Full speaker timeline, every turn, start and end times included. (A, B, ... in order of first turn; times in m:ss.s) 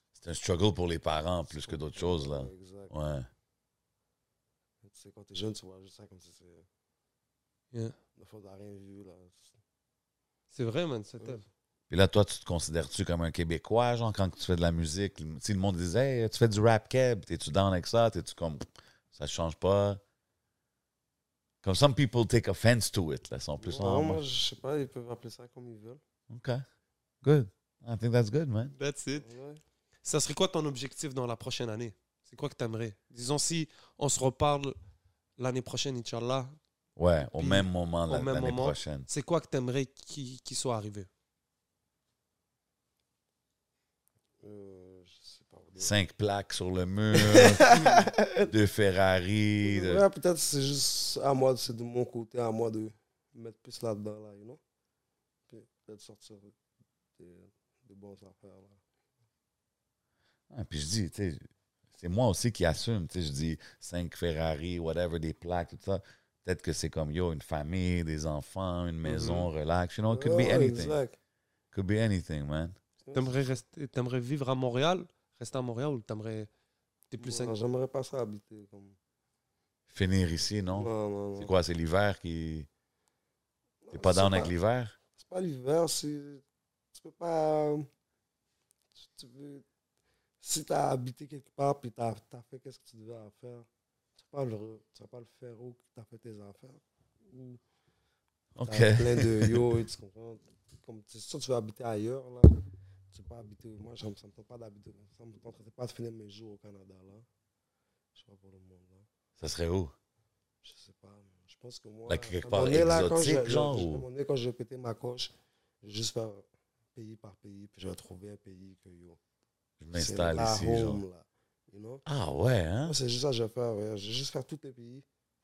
0:00.2-0:03.3 A
0:01.6-0:02.9 B
0:04.8-0:06.7 B
0:08.2-0:09.6 B
0:10.5-0:11.4 C
0:11.9-0:20.0 A
0:21.6-0:24.2 A
0:23.6-0:26.0 B
0:26.3-0:26.6 A
0:27.2-0:28.7 A
0:28.8-0:29.3 C
0:29.2-0:29.6 B
0:30.0-0:34.8 C
0:35.4-0:36.6 C
0:37.0-0:39.1 A
0:37.4-0:41.1 C
0:44.4-0:45.9 B
0:45.8-0:47.9 A
0:47.1-0:48.5 B
0:48.5-0:50.0 A
0:49.6-0:54.6 B
0:55.5-0:56.5 B
0:57.2-0:58.8 B
1:00.5-1:01.4 A
1:02.0-1:11.0 A
1:09.0-1:09.5 C
1:10.1-1:11.2 B
1:11.7-1:12.8 A
1:13.0-1:13.4 B
1:13.1-1:16.5 C
1:17.1-1:17.6 C
1:17.2-1:19.0 B
1:19.9-1:22.7 A
1:20.7-1:21.5 B
1:23.8-1:24.5 B
1:23.9-1:25.0 A
1:25.2-1:27.9 B
1:29.0-1:29.6 B
1:30.4-1:33.7 B
1:34.2-1:37.6 B
1:38.6-1:39.7 A
1:38.6-1:42.5 B
1:43.1-1:47.3 B
1:48.2-1:49.1 B
1:49.4-1:49.9 A
1:50.6-1:59.2 B
1:52.1-1:54.0 A
1:59.8-2:01.0 A
1:59.9-2:02.0 B
2:02.1-2:03.0 A
2:02.8-2:05.0 B